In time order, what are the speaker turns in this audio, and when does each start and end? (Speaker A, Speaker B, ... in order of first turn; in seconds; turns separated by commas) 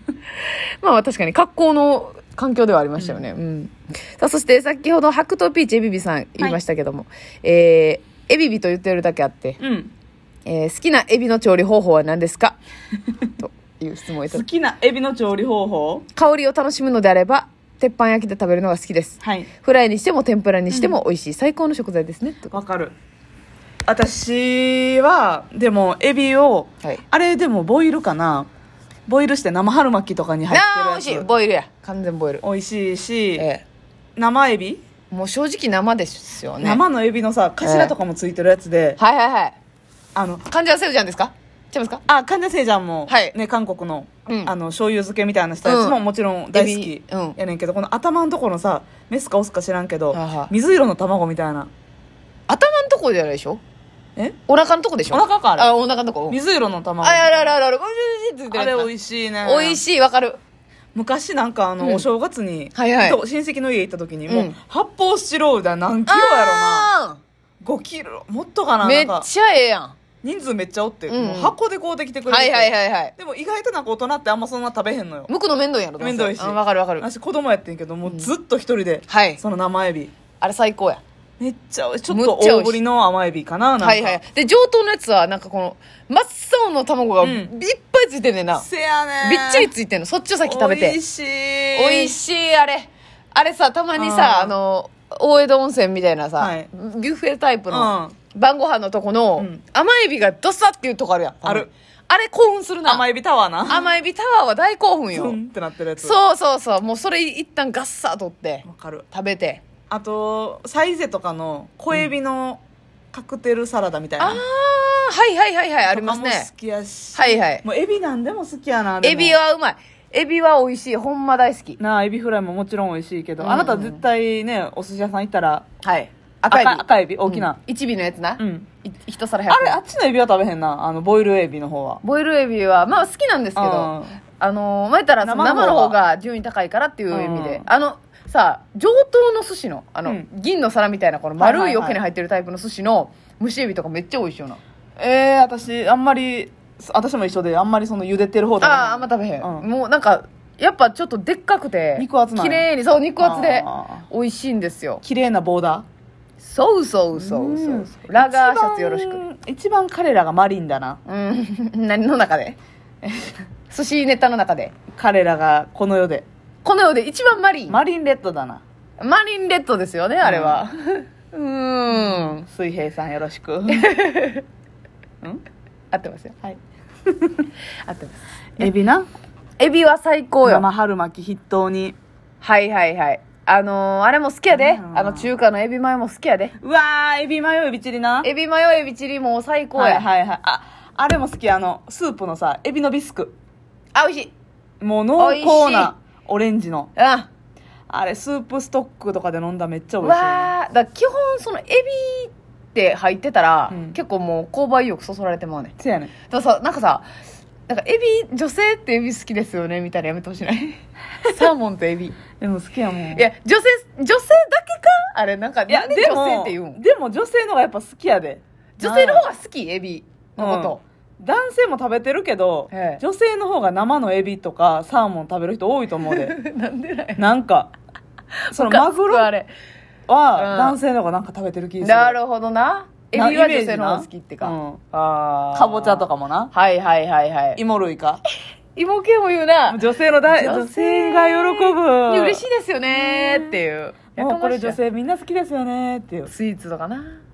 Speaker A: 0.3-9.6, Speaker B: 9.6-9.9, Speaker A: 10.4-12.6, Speaker A: 13.4-14.4, Speaker B: 14.3-16.1, Speaker A: 16.1-22.6, Speaker B: 19.2-19.5, Speaker B: 20.7-21.0, Speaker B: 22.5-22.9, Speaker B: 23.9-28.5, Speaker B: 29.1-31.2, Speaker A: 30.5-32.4, Speaker B: 32.4-33.5, Speaker A: 33.4-33.6, Speaker B: 34.1-34.8, Speaker A: 35.1-36.8, Speaker B: 36.6-39.0, Speaker A: 37.6-37.9, Speaker A: 39.0-39.5, Speaker B: 40.1-40.5, Speaker A: 40.5-42.0, Speaker B: 42.0-51.7, Speaker A: 43.1-43.3, Speaker A: 44.3-44.5, Speaker A: 45.6-46.0, Speaker A: 46.5-47.4, Speaker A: 50.1-50.5, Speaker A: 52.5-53.6, Speaker A: 54.5-56.4, Speaker B: 55.1-55.7, Speaker B: 56.3-57.5, Speaker A: 57.0-58.9, Speaker B: 58.5-59.8, Speaker A: 59.4-60.4, Speaker B: 60.9-66.9, Speaker A: 61.8-62.0, Speaker A: 62.7-63.2, Speaker A: 64.3-64.5, Speaker A: 66.1-67.2, Speaker B: 67.6-69.3, Speaker A: 68.8-69.9, Speaker B: 70.2-75.3, Speaker A: 71.1-71.5, Speaker A: 72.3-73.1, Speaker A: 75.3-77.1, Speaker B: 76.0-80.1, Speaker A: 78.0-78.3, Speaker A: 79.1-79.4, Speaker A: 80.4-81.0, Speaker B: 81.4-84.2, Speaker A: 82.1-82.8, Speaker A: 83.8-88.7, Speaker B: 87.2-87.5, Speaker B: 88.5-89.7, Speaker A: 89.2-91.0, Speaker B: 90.4-92.1, Speaker A: 91.7-103.0, Speaker B: 94.0-94.5, Speaker B: 96.4-96.7, Speaker B: 97.7-98.1, Speaker B: 102.8-103.9, Speaker A: 103.7-105.4, Speaker B: 105.1-106.2, Speaker A: 106.0-109.6, Speaker B: 108.6-109.0, Speaker B: 109.9-112.6, Speaker B: 113.1-114.4, Speaker A: 114.2-116.5, Speaker B: 115.9-119.4, Speaker A: 117.1-117.6, Speaker A: 119.0-121.8, Speaker B: 121.8-125.7, Speaker A: 123.4-124.0, Speaker A: 125.8-129.8, Speaker B: 126.5-127.6, Speaker B: 128.4-128.7, Speaker B: 129.5-132.0, Speaker A: 132.0-144.6, Speaker B: 133.6-134.2, Speaker B: 135.2-136.0, Speaker B: 137.1-137.7, Speaker B: 141.4-142.0, Speaker B: 145.0-149.7, Speaker A: 148.6-155.0, Speaker B: 152.0-154.1, Speaker B: 155.0-155.8, Speaker A: 156.4-159.2, Speaker B: 157.1-161.0, Speaker A: 161.1-164.7, Speaker B: 164.9-166.2, Speaker A: 166.6-167.8, Speaker B: 167.7-168.6, Speaker A: 169.0-172.5, Speaker B: 170.2-170.6, Speaker B: 171.9-173.9, Speaker A: 173.7-174.4, Speaker A: 175.9-176.3, Speaker B: 176.4-177.5, Speaker A: 177.8-178.7, Speaker B: 178.6-179.1, Speaker A: 179.6-180.6, Speaker B: 180.4-182.0, Speaker A: 182.4-186.5, Speaker B: 184.5-185.3, Speaker B: 186.6-188.3, Speaker A: 188.2-190.0, Speaker B: 189.7-193.3, Speaker A: 193.9-194.3, Speaker B: 194.8-196.9, Speaker A: 195.2-195.9, Speaker A: 196.9-197.3, Speaker B: 197.9-200.5, Speaker A: 200.0-205.8, Speaker B: 203.7-203.9, Speaker B: 205.8-206.1, Speaker A: 206.3-207.0, Speaker A: 207.7-212.2, Speaker B: 212.4-213.2, Speaker A: 213.1-216.8, Speaker B: 215.7-219.3, Speaker A: 218.8-220.8, Speaker B: 220.4-226.3, Speaker A: 222.7-223.0, Speaker A: 226.1-227.2, Speaker B: 227.2-227.7, Speaker A: 228.4-229.5, Speaker B: 228.5-229.3, Speaker B: 230.1-232.2, Speaker A: 230.3-230.8, Speaker A: 231.8-237.6, Speaker B: 233.1-234.8, Speaker B: 235.5-236.5, Speaker B: 237.6-238.2, Speaker A: 238.8-244.8, Speaker B: 239.7-243.6, Speaker B: 244.2-246.3, Speaker A: 246.3-247.1